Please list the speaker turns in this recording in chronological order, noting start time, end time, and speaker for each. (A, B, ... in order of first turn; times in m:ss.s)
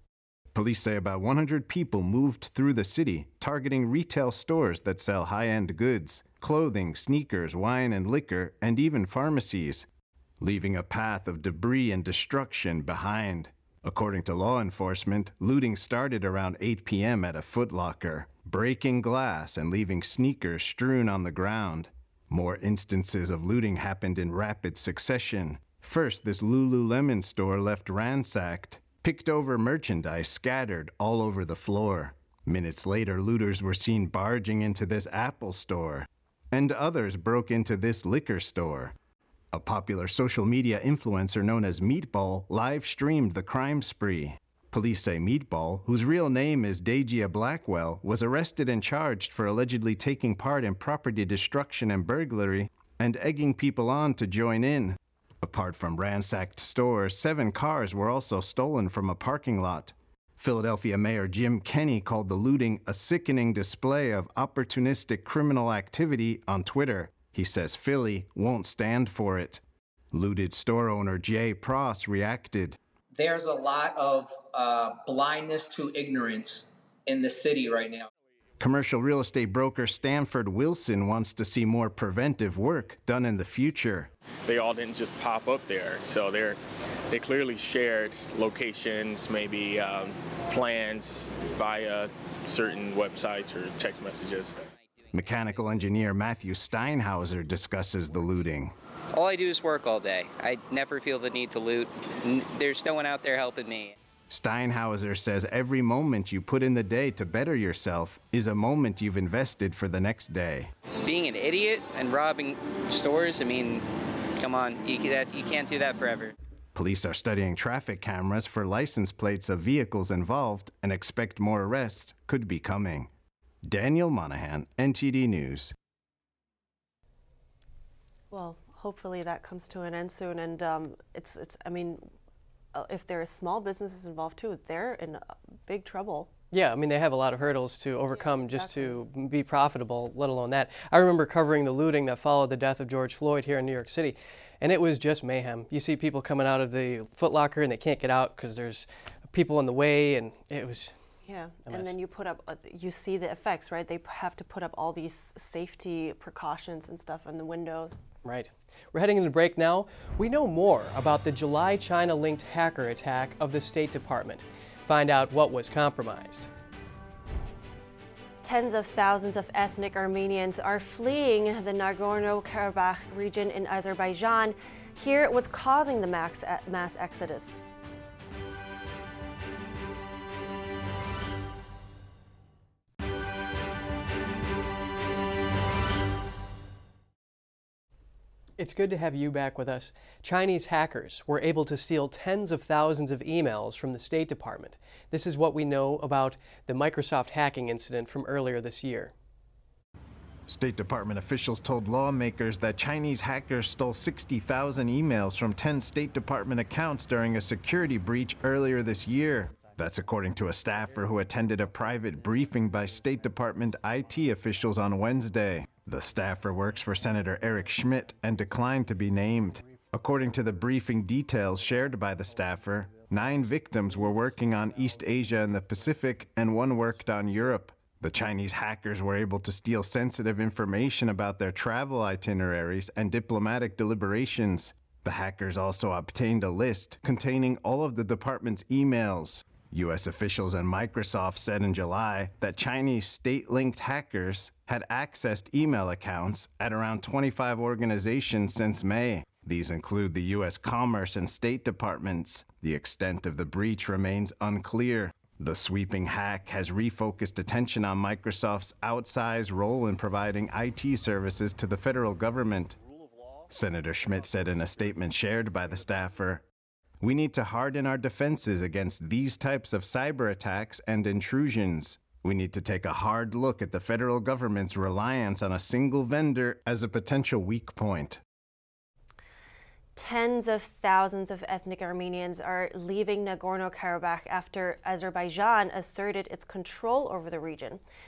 0:00.5-0:09.9 A
0:10.4-0:38.9 A
0:39.5-1:12.8 A
1:13.5-1:16.5 B
1:17.1-1:17.9 B
1:18.6-1:24.1 A
1:24.5-1:26.6 C
1:27.1-1:34.6 C
1:35.1-1:38.8 A
1:39.2-1:41.8 D
1:42.6-1:43.9 D
1:44.3-1:50.7 A
1:51.1-1:53.8 D
1:54.4-1:56.3 D
1:56.7-2:03.1 A
2:03.6-2:05.7 A
2:08.3-2:12.1 E
2:12.8-2:16.3 E
2:16.5-2:30.9 F
2:18.1-2:19.0 E
2:31.3-2:38.0 E
2:31.7-2:31.9 F
2:38.2-2:46.5 F
2:48.4-2:57.6 E
3:08.6-3:19.1 F
3:20.5-4:22.8 A
4:23.5-4:26.4 A
4:27.0-4:38.2 A
4:40.0-4:47.8 E